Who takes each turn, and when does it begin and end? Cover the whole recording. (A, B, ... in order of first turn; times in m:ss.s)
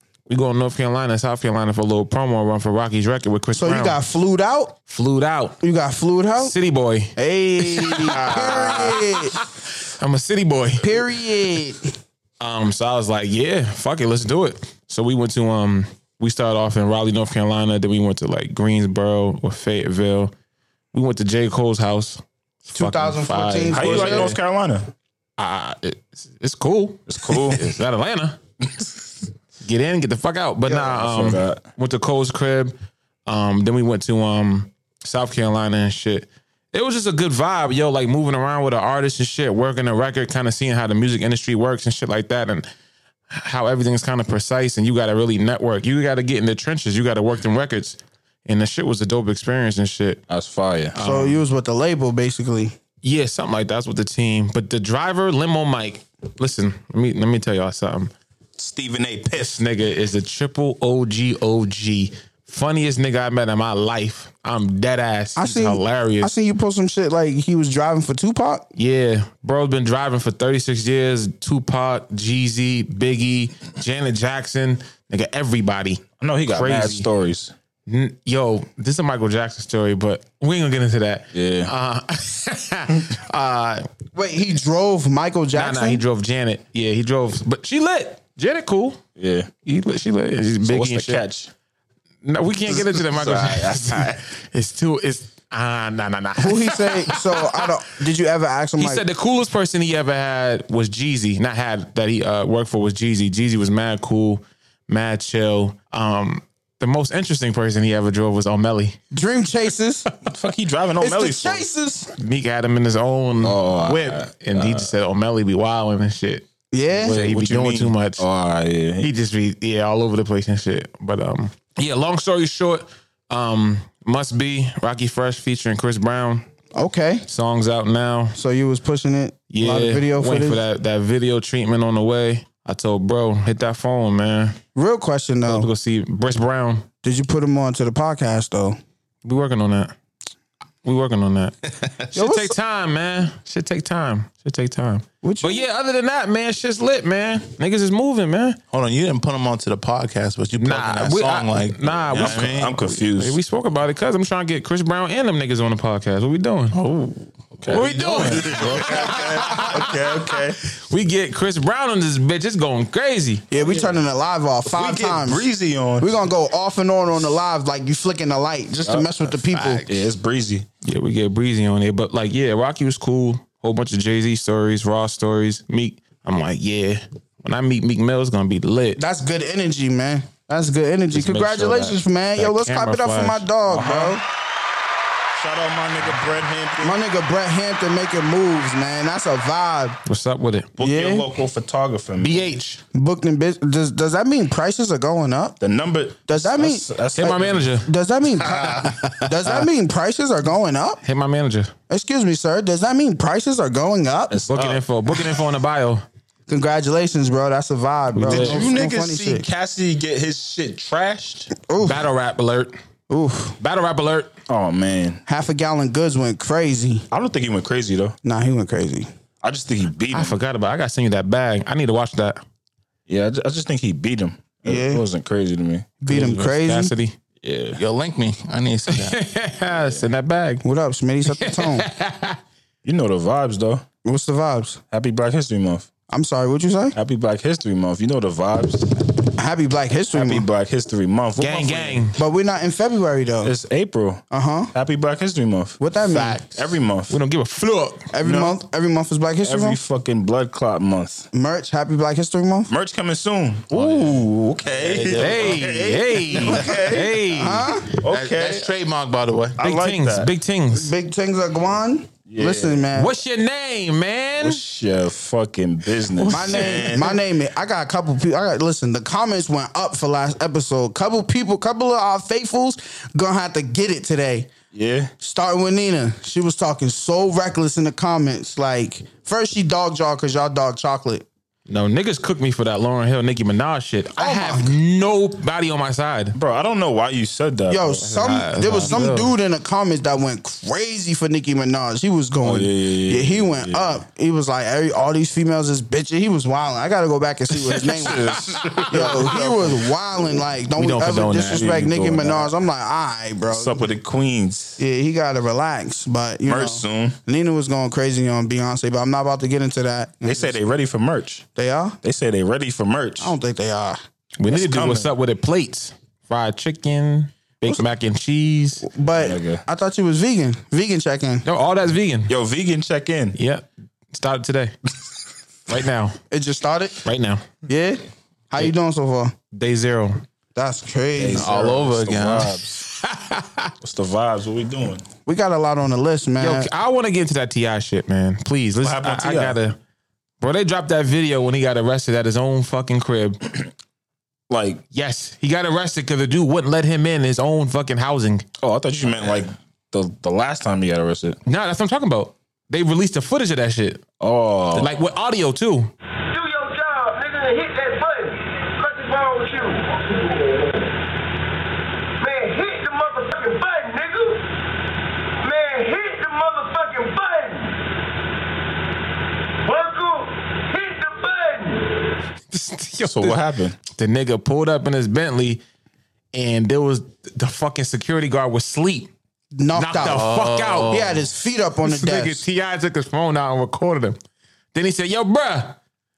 0:00.3-0:04.0 A
0:03.6-0:04.8 B
0:04.9-0:05.6 A
0:05.6-0:06.5 B
0:06.4-0:11.0 A
0:07.2-0:09.4 B
0:08.0-0:09.0 C
0:10.8-0:11.9 B
0:12.4-0:20.3 A
0:20.9-0:24.4 A
0:22.7-0:24.3 B
0:23.7-0:24.9 C
0:25.4-0:28.4 A
0:27.1-0:27.6 C
0:29.6-0:32.8 A
0:30.7-0:31.6 C
0:33.3-0:42.7 A
0:43.3-0:50.2 A
0:50.3-0:51.0 C
0:51.0-0:51.4 A
0:51.0-0:52.7 B
0:53.0-0:58.1 A
0:58.6-0:59.6 C
0:59.3-1:06.3 A
1:05.4-1:08.7 B
1:08.8-1:17.1 A
1:16.2-1:17.5 C
1:17.9-1:23.9 A
1:21.3-1:21.7 C
1:24.2-1:26.0 B
1:25.5-1:29.0 A
1:29.2-1:29.5 C
1:29.6-1:31.2 A
1:30.6-1:31.5 C
1:32.2-1:37.6 A
1:32.7-1:34.2 C
1:36.4-1:39.0 B
1:38.8-1:49.0 A
1:49.1-1:50.1 B
1:50.3-1:51.7 C
1:51.0-1:52.1 B
1:52.2-1:56.5 A
1:53.4-1:54.9 C
1:56.7-1:57.2 B
1:57.0-1:58.2 A
1:57.0-1:59.1 C
1:59.0-2:06.5 A
2:06.8-2:07.3 B
2:07.3-2:08.4 A
2:08.4-2:10.6 B
2:09.5-2:14.6 A
2:14.8-2:15.7 B
2:15.5-2:16.9 A
2:17.0-2:18.8 B
2:19.2-2:19.9 A
2:20.8-2:28.6 A
2:22.2-2:22.6 B
2:25.2-2:25.6 B
2:28.7-2:32.8 D
2:30.6-2:43.5 A
2:32.1-2:33.4 C
2:37.6-2:40.6 C
2:38.8-2:39.2 D
2:43.5-2:45.5 B
2:43.6-2:44.0 C
2:44.7-2:46.2 C
2:46.0-2:49.8 B
2:49.6-2:49.8 A
2:49.9-2:50.7 C
2:50.8-2:59.0 A
2:59.0-3:04.2 B
3:01.1-3:03.5 A
3:03.7-3:04.2 C
3:05.4-3:07.0 C
3:06.8-3:10.0 B
3:10.1-3:10.7 A
3:10.8-3:12.5 C
3:10.8-3:11.3 B
3:12.2-3:12.8 A
3:12.9-3:15.6 B
3:15.6-3:17.7 C
3:16.3-3:21.0 B
3:17.2-3:17.9 A
3:18.8-3:19.2 A
3:21.0-3:21.7 A
3:21.9-3:24.4 B
3:24.3-3:24.8 C
3:24.5-3:26.0 A
3:26.5-3:29.5 B
3:28.2-3:28.7 A
3:28.2-3:31.5 C
3:31.7-3:32.1 B
3:31.8-3:32.8 A
3:33.1-3:33.6 B
3:33.6-3:34.3 A
3:34.5-3:35.2 C
3:35.3-3:37.1 B
3:37.1-3:38.2 C
3:38.2-3:39.1 B
3:39.4-3:40.4 C
3:40.1-3:42.4 A
3:43.1-3:45.9 C
3:44.6-3:45.0 B
3:46.0-3:46.9 B
3:46.1-3:47.2 A
3:47.4-3:47.8 C
3:47.7-3:49.2 D
3:48.9-3:50.6 A
3:49.7-3:50.0 C
3:50.6-3:51.9 B
3:51.3-3:52.4 A
3:52.8-3:53.8 C
3:54.0-3:54.8 B
3:54.9-3:55.9 C
3:56.1-3:57.0 B
3:57.0-3:59.1 C
3:59.4-4:00.5 B
4:00.1-4:02.0 C
4:01.4-4:02.2 A
4:02.2-4:03.5 B
4:03.4-4:05.8 C
4:04.3-4:04.7 B
4:05.8-4:06.4 B
4:06.1-4:06.7 D
4:06.4-4:07.2 C
4:07.1-4:08.1 A
4:08.1-4:09.8 B
4:08.2-4:08.6 C
4:09.4-4:11.3 C
4:11.3-4:12.7 B
4:12.7-4:17.2 C
4:13.8-4:16.7 D
4:15.2-4:17.9 A
4:17.3-4:18.0 B
4:18.0-4:18.7 C
4:18.1-4:19.6 D
4:19.6-4:20.3 C
4:19.6-4:20.9 A
4:20.7-4:23.2 B
4:22.3-4:22.9 C
4:23.0-4:24.6 A
4:24.4-4:27.2 C
4:26.2-4:26.9 A
4:26.3-4:34.5 B
4:34.7-4:35.1 C
4:35.2-4:41.2 B
4:41.7-4:46.4 A
4:44.2-4:44.8 B
4:46.4-4:48.0 C
4:47.7-5:03.8 B
4:48.0-4:49.3 A
4:52.4-4:54.0 C
4:57.5-4:59.4 A
4:58.0-4:59.8 C
5:00.8-5:01.8 A
5:01.4-5:02.5 C
5:03.5-5:04.8 C
5:04.8-5:10.6 B
5:06.4-5:07.2 C
5:10.2-5:11.5 C
5:11.6-5:12.0 B
5:12.0-5:13.4 C
5:13.2-5:14.0 B
5:14.4-5:18.8 A
5:14.5-5:15.1 C
5:18.8-5:21.4 B
5:19.0-5:19.6 C
5:21.4-5:22.3 A
5:22.3-5:23.4 C
5:23.4-5:24.7 A
5:25.7-5:26.2 A
5:26.3-5:27.0 B
5:27.0-5:27.4 A
5:27.7-5:29.3 B
5:29.5-5:30.2 A
5:30.6-5:31.5 B
5:31.2-5:32.8 C
5:31.3-5:32.6 D
5:32.8-5:33.7 A
5:33.8-5:35.0 C
5:35.3-5:36.7 B
5:36.4-5:39.8 A
5:38.8-5:39.6 C
5:40.4-5:43.4 A
5:44.5-5:44.8 C
5:44.9-5:48.4 A
5:48.6-5:51.4 C
5:51.5-5:54.0 A
5:54.2-5:54.9 C
5:54.8-5:55.9 A
5:56.3-6:01.0 E
6:02.2-6:04.5 E
6:05.4-6:07.9 E
6:09.6-6:12.1 E
6:12.5-6:15.6 A
6:13.0-6:13.8 C
6:16.3-6:19.1 A
6:19.6-6:20.3 B
6:19.8-6:21.1 A
6:20.0-6:21.2 D
6:20.9-6:22.4 B
6:21.8-6:24.2 A
6:24.7-6:25.8 A